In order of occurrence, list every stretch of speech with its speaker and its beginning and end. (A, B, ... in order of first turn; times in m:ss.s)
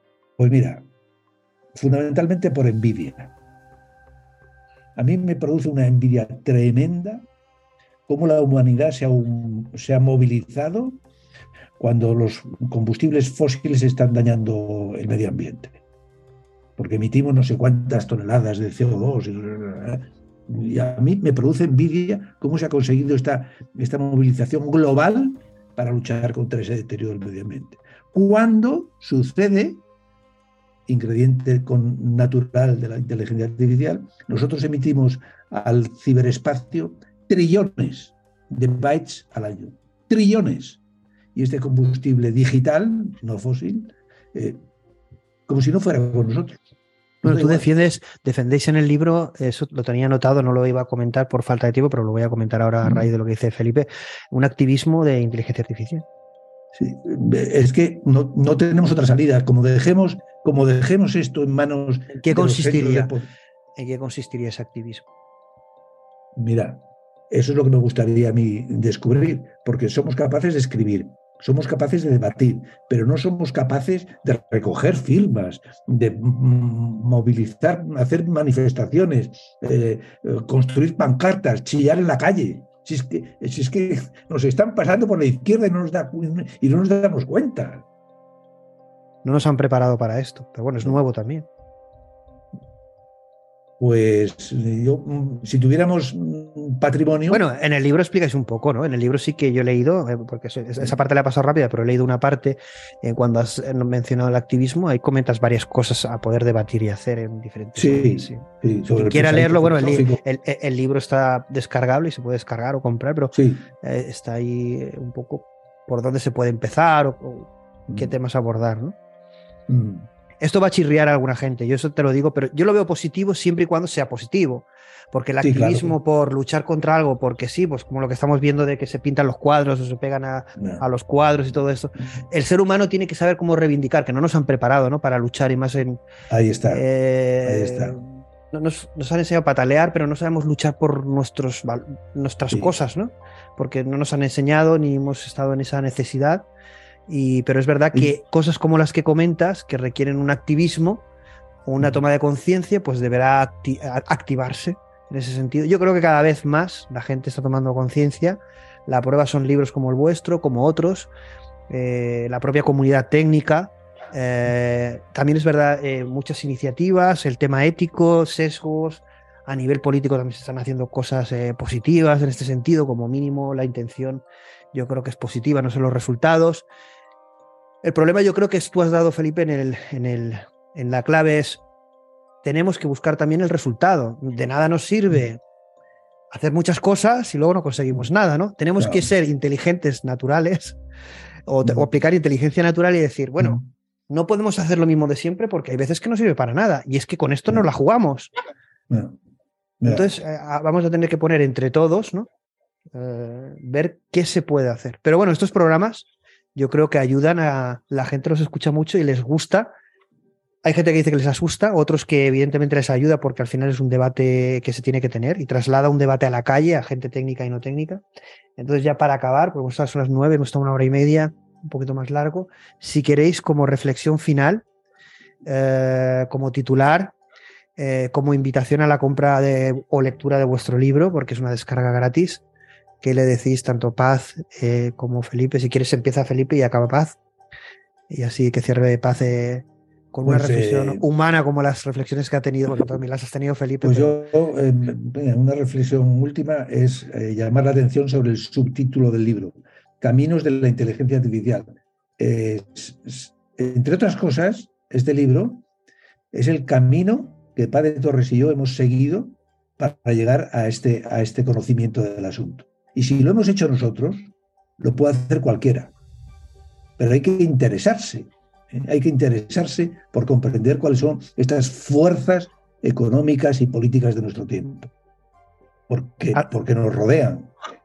0:00.4-0:00.8 A
0:01.7-0:03.3 A
0:05.0-0:07.2 A
0:08.1-0:11.0 A
0:11.8-0:15.8 A
0:16.8-0:29.8 A
0:30.9-0:40.8 A
0:41.3-0:44.6 A
0:45.5-0:46.6 A
0:47.2-0:47.7 A
0:47.2-0:56.0 B
0:56.7-1:03.3 A
1:02.1-1:03.1 B
1:03.8-1:05.0 B
1:06.4-1:27.8 A
1:29.2-1:31.4 B
1:33.8-1:37.4 A
1:37.3-1:59.0 B
1:47.8-1:50.2 A
1:53.3-1:53.7 A
1:57.9-1:58.1 A
1:59.7-2:00.1 A
2:00.4-2:16.0 B
2:05.4-2:06.0 A
2:10.6-2:10.8 A
2:16.3-2:16.8 A
2:16.7-2:26.5 B
2:17.4-2:18.0 A
2:27.1-2:31.0 B
2:31.7-2:41.1 B
2:41.7-2:56.7 B
2:57.8-3:01.6 B
3:02.4-3:05.4 B
3:06.3-3:10.8 B
3:08.8-3:09.1 A
3:11.5-3:18.3 B
3:11.6-3:11.9 A
3:13.4-3:13.7 A
3:18.9-3:19.2 A
3:19.8-3:20.1 A
3:19.8-3:22.3 B
3:22.9-3:29.7 B
3:30.6-3:38.0 B
3:38.6-3:44.6 B
3:45.4-3:47.1 B
3:47.8-3:52.4 B
3:53.0-3:57.1 B
3:58.1-4:04.2 B
4:00.2-4:01.0 A
4:02.7-4:03.0 A
4:03.8-4:15.6 A
4:16.3-4:25.9 A
4:27.0-4:34.9 A
4:35.9-4:37.5 A